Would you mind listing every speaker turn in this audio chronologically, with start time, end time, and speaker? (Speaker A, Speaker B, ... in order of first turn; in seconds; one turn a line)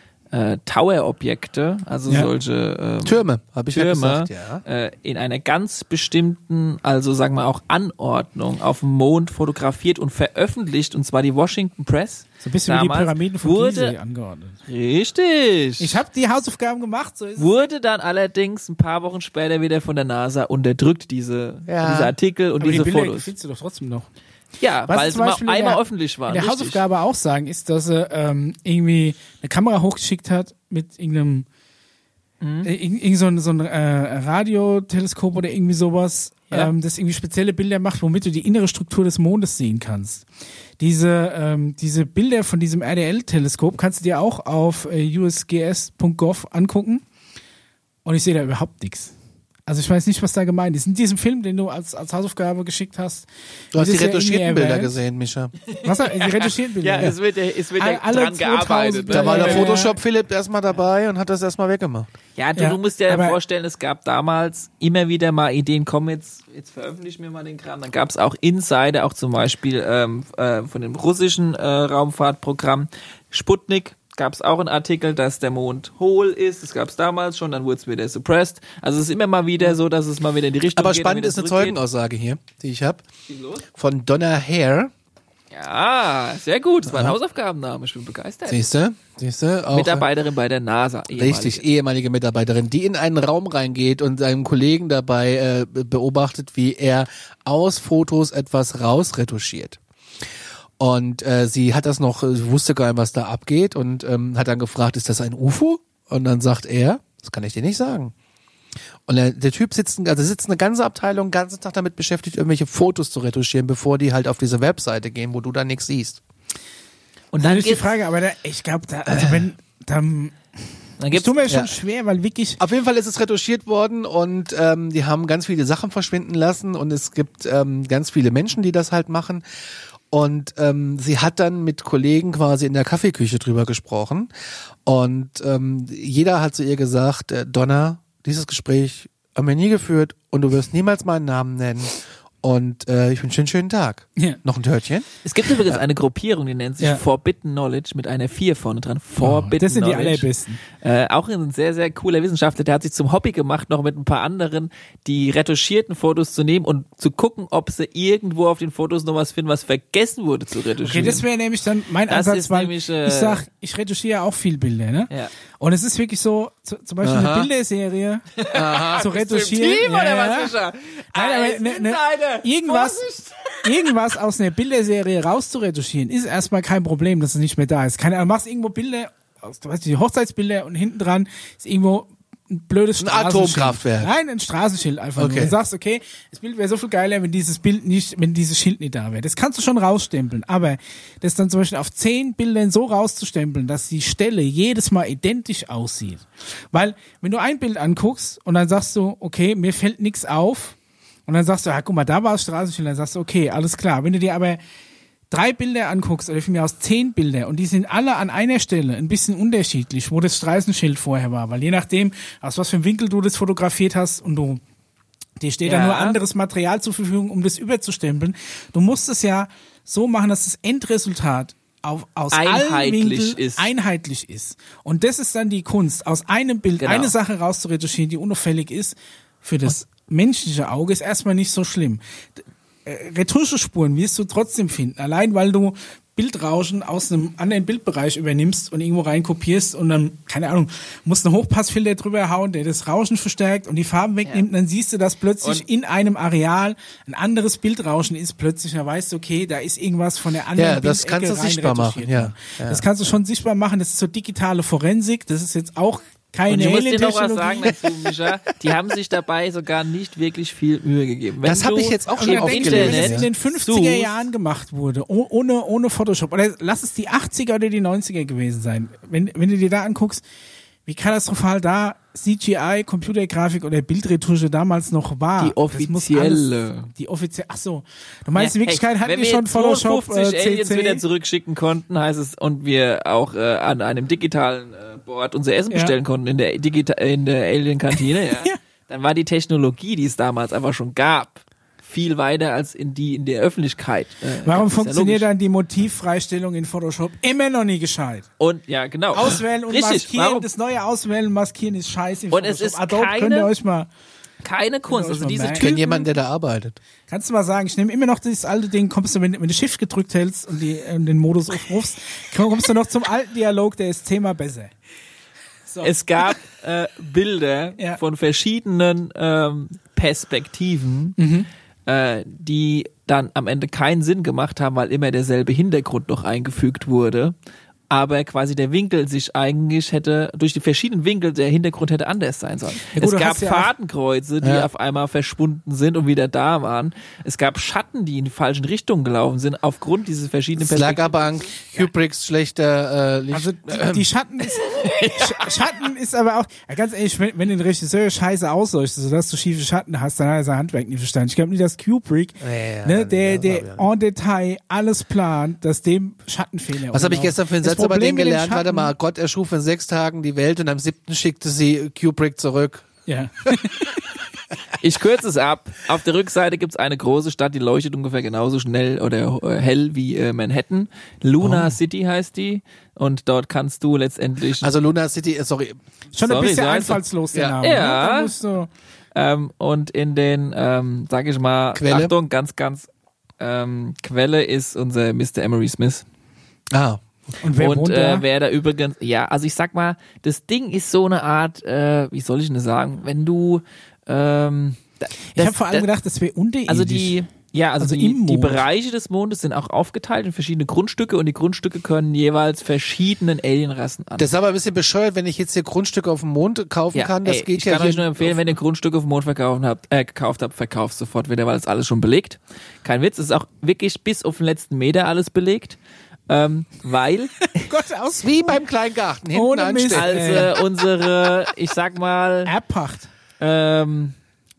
Speaker A: 0.3-13.9
Speaker B: 3.0-4.6
Speaker C: 12.4-14.6
Speaker A: 14.7-16.0
Speaker C: 15.8-17.5
Speaker A: 17.4-23.3
Speaker B: 21.7-22.1
Speaker C: 22.6-24.1
Speaker A: 24.6-26.8
Speaker C: 24.9-31.4
Speaker A: 32.4-32.7
Speaker C: 32.6-40.2
Speaker C: 40.8-47.0
Speaker C: 48.0-49.1
Speaker C: 49.6-55.0
Speaker B: 53.7-55.5
Speaker A: 55.7-59.8
Speaker C: 55.8-57.1
Speaker C: 57.8-60.0
Speaker B: 59.1-62.1
Speaker A: 62.4-81.8
Speaker C: 62.6-63.4
Speaker B: 80.8-83.0
Speaker A: 83.3-83.6
Speaker B: 83.7-84.9
Speaker A: 85.5-88.6
Speaker B: 86.8-87.1
Speaker B: 88.5-90.0
Speaker A: 89.7-91.6
Speaker B: 91.2-99.8
Speaker B: 100.8-108.1
Speaker B: 109.1-116.2
Speaker A: 117.3-117.9
Speaker C: 117.4-120.4
Speaker B: 119.1-119.4
Speaker A: 121.0-121.5
Speaker C: 121.1-122.6
Speaker B: 122.6-129.4
Speaker B: 130.1-134.3
Speaker B: 134.8-145.1
Speaker A: 145.2-161.2
Speaker C: 149.2-150.6
Speaker C: 160.8-168.2
Speaker A: 162.1-163.4
Speaker B: 167.0-167.5
Speaker A: 168.3-173.9
Speaker B: 168.5-169.1
Speaker C: 168.9-170.5
Speaker C: 171.1-173.1
Speaker C: 173.6-200.8
Speaker B: 183.0-184.1
Speaker B: 185.2-185.5
Speaker C: 201.3-204.6
Speaker C: 205.3-214.6
Speaker C: 215.4-232.0
Speaker A: 215.6-216.2
Speaker A: 222.3-223.7
Speaker A: 226.8-227.1
Speaker C: 232.8-258.0
Speaker B: 250.5-252.8
Speaker A: 256.5-264.1
Speaker B: 261.4-263.3
Speaker C: 262.2-270.2
Speaker C: 270.9-281.0
Speaker A: 275.4-276.9
Speaker A: 278.4-295.2
Speaker C: 287.9-288.6
Speaker C: 294.4-298.3
Speaker A: 298.4-300.4
Speaker C: 299.1-303.9
Speaker A: 302.3-303.5
Speaker A: 304.4-306.1
Speaker C: 304.9-305.7
Speaker B: 305.6-306.8
Speaker C: 307.1-314.7
Speaker A: 315.8-321.2
Speaker C: 321.2-321.5
Speaker A: 321.9-327.3
Speaker A: 327.9-341.7
Speaker C: 332.9-333.7
Speaker B: 334.4-334.7
Speaker B: 340.6-344.1
Speaker C: 343.3-358.9
Speaker A: 344.5-345.5
Speaker B: 352.4-353.9
Speaker B: 356.9-362.9
Speaker C: 363.1-363.9
Speaker A: 364.8-374.7
Speaker B: 371.4-371.7
Speaker B: 374.6-375.8
Speaker C: 376.1-378.7
Speaker A: 376.2-377.0
Speaker B: 377.3-377.6
Speaker A: 377.6-378.3
Speaker A: 379.1-382.9
Speaker B: 381.7-382.1
Speaker A: 383.4-386.0
Speaker B: 386.7-387.1
Speaker C: 387.4-388.2
Speaker A: 387.6-395.9
Speaker C: 395.3-397.2
Speaker A: 396.7-404.3
Speaker C: 397.8-398.6
Speaker B: 404.2-408.4
Speaker A: 406.9-415.8
Speaker A: 416.3-417.7
Speaker C: 417.5-418.6
Speaker B: 418.2-420.4
Speaker C: 419.3-420.5
Speaker A: 419.9-422.5
Speaker C: 422.4-423.1
Speaker A: 423.4-424.1